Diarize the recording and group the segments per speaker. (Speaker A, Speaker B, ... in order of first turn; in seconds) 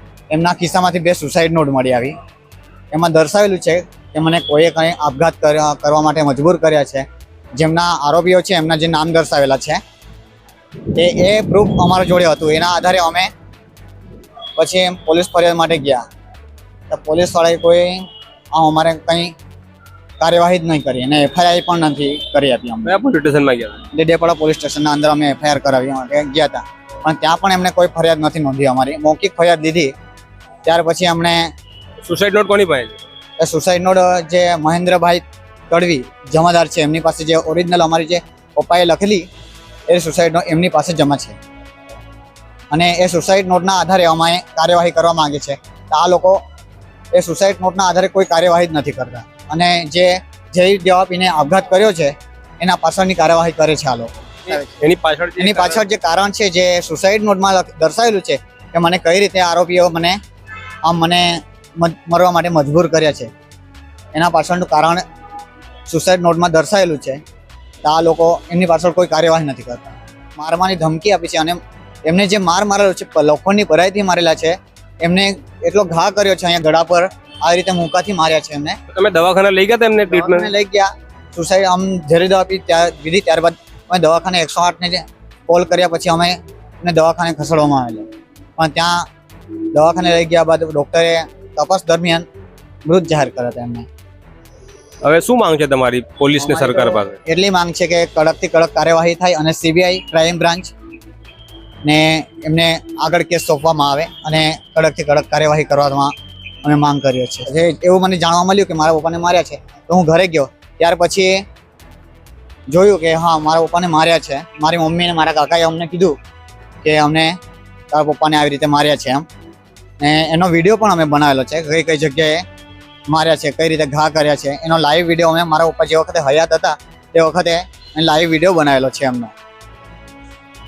Speaker A: 0.3-2.2, 2.9-7.1, 7.6-9.8, 10.9-13.3, 14.6-16.1, 16.9-19.3, 20.2-23.0, 23.9-29.9, 30.6-31.5, 33.4-39.3, 39.9-41.4, 42.7-46.4, 47.1-54.8, 55.4-60.2, 60.9-63.3, 64.1-65.0, 65.9-67.2, 67.8-78.8, 80.1-88.1, 88.6-89.1, 89.7-92.3, 92.9-93.9, 96.4-100.7, 101.8-106.1, 106.7-111.5, 112.7-116.2, 116.8-117.4, 117.9-119.3, 120.0-122.5, 123.1-129.3
Speaker B: 22.9-23.9, 32.0-33.0, 54.5-55.9, 78.9-80.5, 95.0-97.2